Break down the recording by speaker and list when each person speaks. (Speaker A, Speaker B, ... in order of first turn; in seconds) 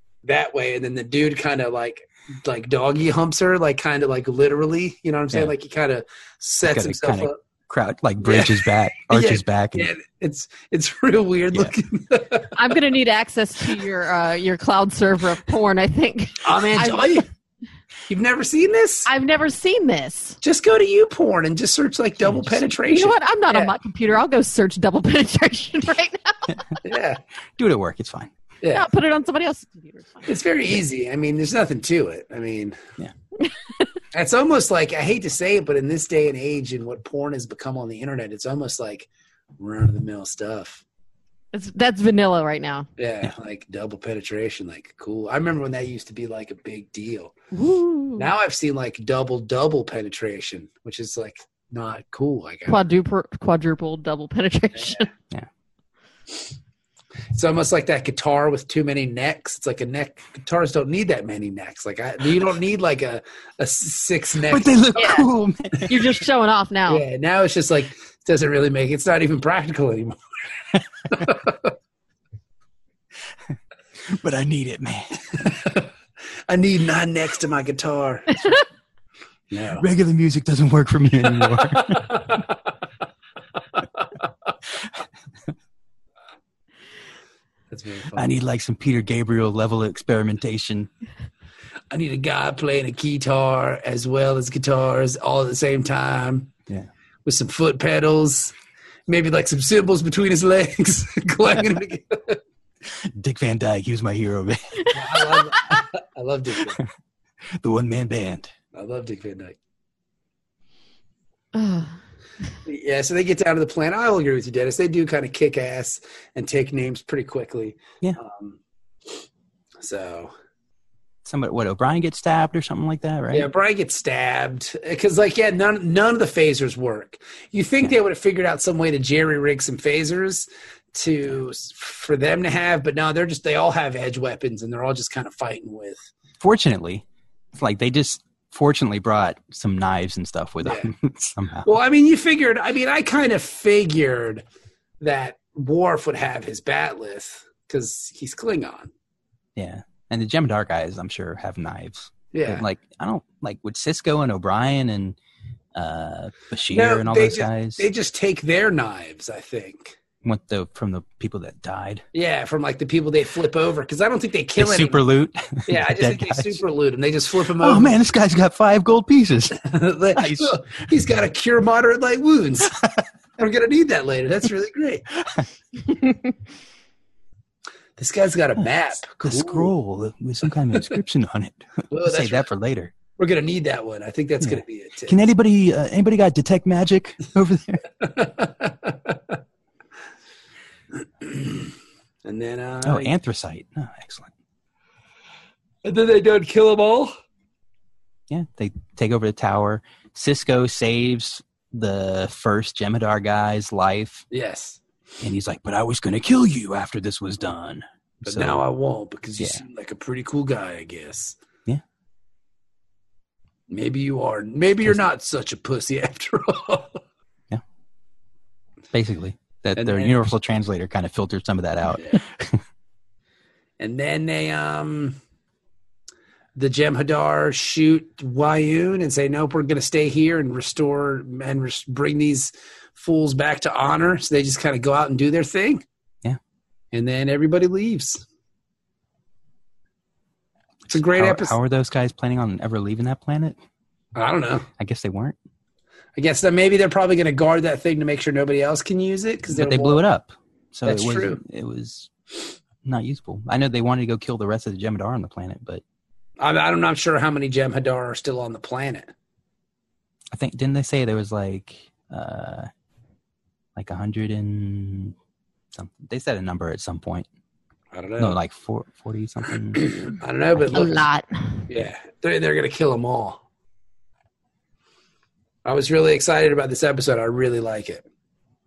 Speaker A: 0.2-7.4, 8.2-12.8, 16.4-17.2, 18.1-19.1, 20.4-23.7, 26.8-27.2, 30.2-32.8, 34.1-39.1, 39.6-40.8, 43.0-47.3, 48.2-52.8, 57.3-64.7, 66.9-70.2, 70.7-71.7, 75.4-75.9, 76.5-78.5, 79.5-79.8, 81.6-82.5, 87.7-88.3, 91.9-96.5, 97.2-98.5, 99.1-102.4, 104.9-106.8, 108.7-109.6, 112.6-118.6, 119.8-120.3, 123.3-136.0, 140.6-140.9, 141.6-144.4, 145.0-148.9, 152.3-152.6, 156.7-160.0, 162.1-165.0, 165.7-167.9, 169.6-172.8, 173.4-175.0, 178.0-179.7, 181.9-182.5, 183.2-185.2, 188.0-189.4, 191.2-191.7, 192.2-193.1, 195.8-197.1, 204.3-204.8, 208.2-211.4, 213.7-217.0, 219.8-220.1, 223.8-225.2, 226.6-235.8, 236.9-238.2, 240.9-241.6, 244.1-244.7, 246.2-250.0, 250.8-251.4, 256.4-259.1, 267.9-268.4, 269.8-271.0, 271.7-273.4, 275.6-278.1
Speaker B: 6.6-9.9, 22.3-22.5, 27.6-28.3, 64.5-66.0, 74.1-75.3, 79.8-82.4, 88.1-90.9, 102.8-104.9, 107.5-108.5, 121.2-123.5, 136.4-141.7, 149.6-155.2, 155.7-157.8, 160.2-162.0, 164.6-166.6, 167.6-170.7, 175.2-175.5, 179.2-182.9, 184.4-187.9, 192.8-194.3, 198.3-204.2, 205.2-208.6, 218.9-222.6, 241.0-243.6, 244.8-245.4, 249.5-252.1, 252.8-255.8, 260.3-262.7, 263.8-265.1, 265.7-267.3, 268.2-270.0, 270.6-270.9
Speaker C: 12.6-17.2, 19.1-20.4, 22.9-26.6, 28.7-30.3, 33.4-33.9, 41.5-42.9, 47.5-48.3, 52.7-55.1, 65.0-65.3, 65.9-67.0, 111.5-112.0, 270.7-271.6